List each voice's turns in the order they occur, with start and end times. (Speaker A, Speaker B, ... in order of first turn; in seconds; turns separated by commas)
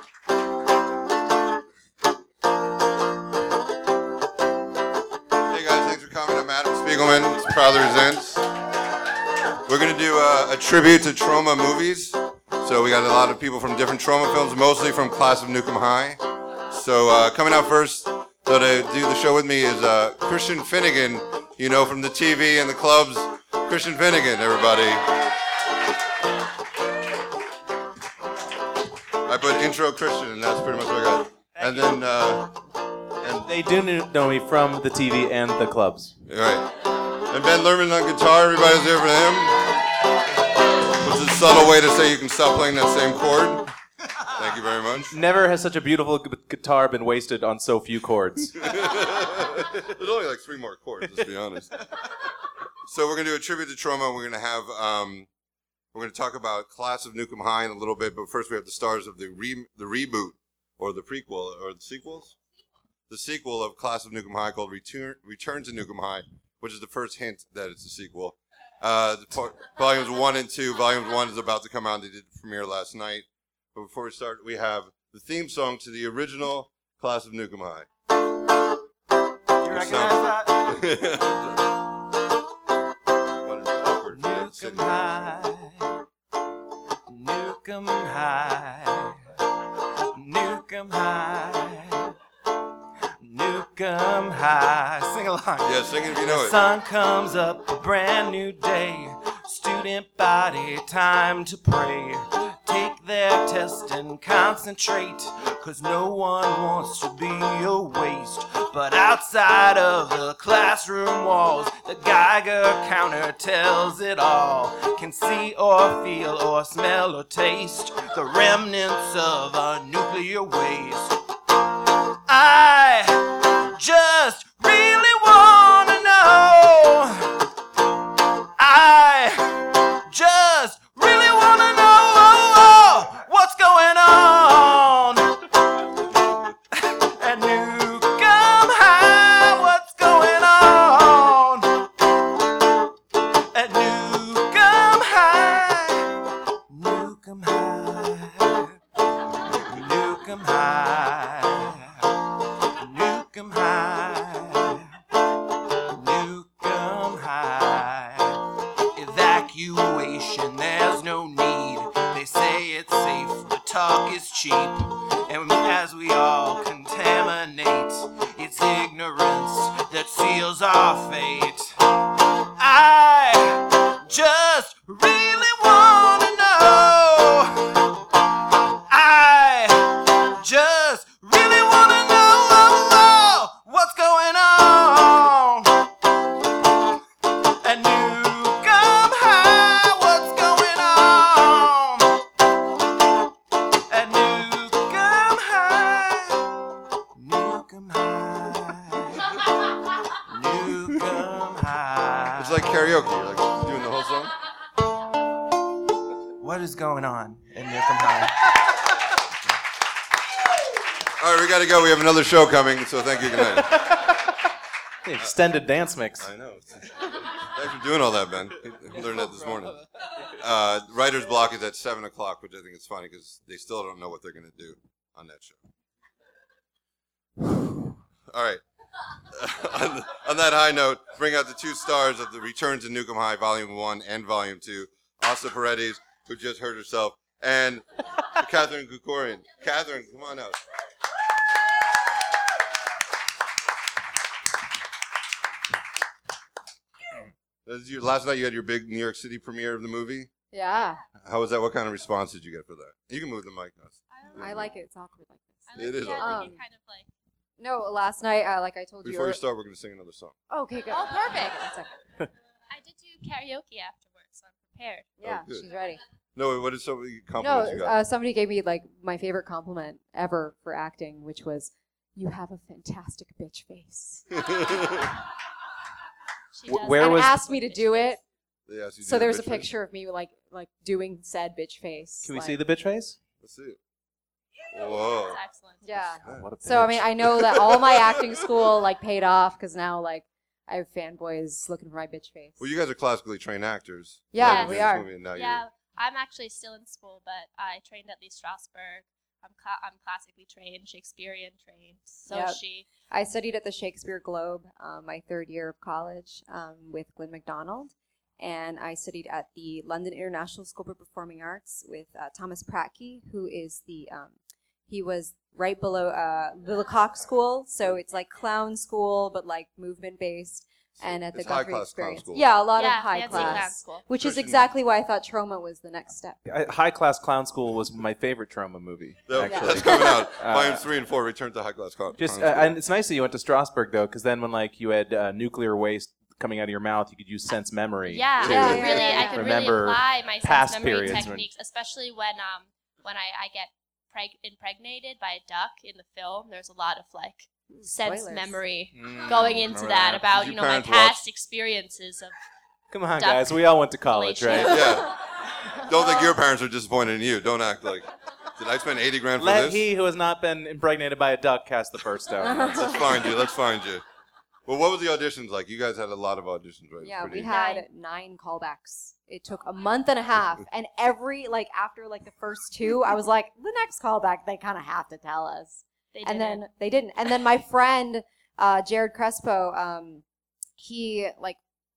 Speaker A: 5.5-8.5, Speaker A: 9.7-25.3, Speaker A: 29.2-32.6, Speaker A: 33.2-33.5, Speaker B: 33.5-36.1, Speaker A: 36.3-39.8, Speaker A: 40.9-43.7, Speaker A: 44.3-45.2, Speaker B: 45.1-48.7, Speaker A: 48.6-51.8, Speaker A: 52.9-55.3, Speaker A: 55.9-62.4, Speaker A: 63.1-77.9, Speaker C: 79.6-80.8, Speaker A: 79.7-81.7, Speaker A: 83.4-85.0, Speaker C: 84.1-85.9, Speaker C: 87.1-89.0, Speaker C: 90.2-91.8, Speaker C: 93.2-121.1, Speaker A: 95.6-96.6, Speaker C: 122.3-127.3, Speaker C: 128.6-135.3, Speaker C: 136.7-141.9, Speaker C: 143.5-146.1, Speaker C: 146.7-148.6, Speaker C: 149.6-151.7, Speaker C: 152.8-154.8, Speaker C: 155.9-158.2, Speaker C: 159.0-171.6, Speaker C: 172.6-173.4, Speaker C: 174.0-177.7, Speaker C: 178.9-185.9, Speaker C: 187.6-192.2, Speaker C: 193.9-196.4, Speaker C: 197.2-199.3, Speaker C: 200.3-202.6, Speaker A: 202.4-204.3, Speaker C: 206.4-208.4, Speaker A: 211.2-213.8, Speaker B: 213.5-214.4, Speaker B: 215.0-216.3, Speaker A: 216.2-219.9, Speaker A: 220.4-225.6, Speaker A: 227.4-228.6, Speaker A: 229.3-240.6, Speaker A: 247.7-250.3, Speaker D: 250.5-251.0, Speaker A: 251.2-254.7, Speaker E: 254.1-254.8, Speaker D: 254.4-256.6, Speaker E: 255.7-257.1, Speaker A: 255.8-256.6, Speaker D: 257.6-259.4, Speaker A: 259.0-260.4, Speaker D: 260.5-262.0, Speaker E: 260.9-261.6, Speaker E: 262.7-265.1, Speaker D: 265.2-266.0, Speaker A: 265.2-265.7, Speaker A: 266.4-268.0, Speaker D: 267.4-274.4, Speaker A: 274.4-275.1, Speaker E: 276.5-278.2, Speaker B: 276.7-277.3, Speaker D: 277.0-278.2, Speaker A: 278.7-279.7, Speaker D: 279.0-282.6, Speaker B: 282.2-283.2, Speaker A: 283.4-283.8, Speaker A: 284.7-285.4, Speaker E: 285.1-285.9, Speaker D: 285.8-292.6, Speaker B: 286.3-287.1, Speaker A: 287.2-288.7, Speaker A: 292.6-295.6, Speaker D: 294.3-295.1, Speaker E: 294.4-302.9, Speaker D: 302.3-314.4, Speaker D: 314.9-326.4, Speaker A: 321.0-322.5, Speaker E: 322.8-324.1, Speaker A: 323.3-323.7, Speaker A: 324.2-324.7, Speaker B: 326.5-330.9, Speaker A: 329.3-332.8, Speaker D: 329.4-330.2, Speaker B: 332.2-341.5, Speaker E: 338.1-352.3, Speaker A: 338.4-338.9, Speaker D: 338.4-339.7, Speaker D: 347.7-348.6, Speaker B: 348.9-350.2, Speaker A: 349.9-351.2, Speaker B: 352.9-354.9, Speaker E: 353.2-355.0, Speaker A: 354.5-355.2, Speaker A: 355.8-359.8, Speaker B: 359.4-362.8, Speaker D: 362.4-363.4, Speaker A: 362.5-364.0, Speaker A: 364.7-367.5, Speaker D: 367.0-380.2, Speaker E: 367.5-367.9, Speaker E: 376.1-376.6, Speaker D: 380.8-381.6